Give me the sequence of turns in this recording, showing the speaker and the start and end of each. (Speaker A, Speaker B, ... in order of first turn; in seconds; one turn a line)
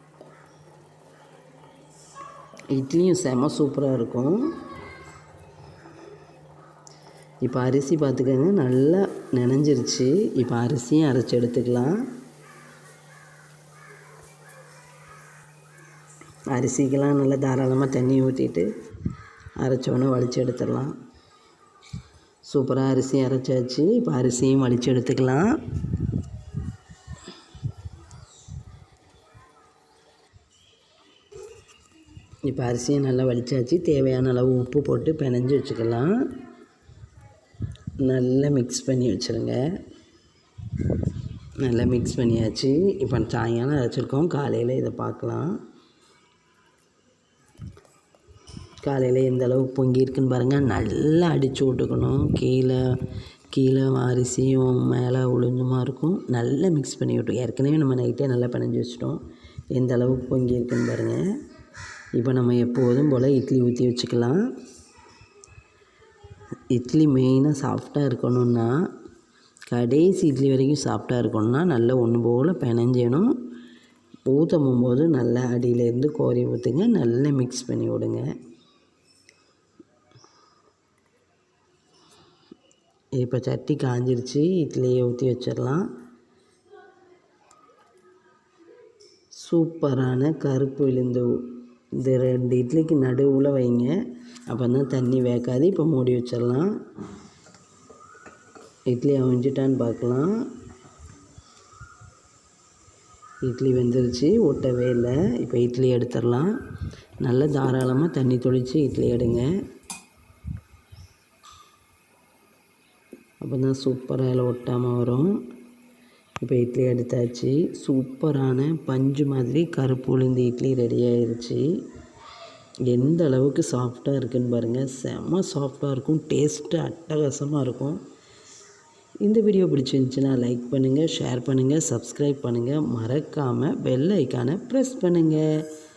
Speaker A: 2.7-4.5
Speaker A: 7.4-12.0
Speaker A: 16.5-18.7
Speaker A: 19.6-20.9
Speaker A: 22.5-25.5
Speaker A: 32.5-36.1
Speaker A: 38.0-39.6
Speaker A: 41.6-45.5
Speaker A: 48.8-52.8
Speaker A: 53.5-59.2
Speaker A: 59.7-61.2
Speaker A: 62.1-64.4
Speaker A: 66.7-68.8
Speaker A: 69.7-73.3
Speaker A: 74.3-78.3
Speaker A: 83.2-85.9
Speaker A: 89.4-91.4
Speaker A: 92.0-93.9
Speaker A: 94.5-96.7
Speaker A: 98.9-100.3
Speaker A: 103.5-106.5
Speaker A: 107.2-109.5
Speaker A: 113.4-115.4
Speaker A: 116.4-121.7
Speaker A: 122.9-128.0
Speaker A: 129.2-135.4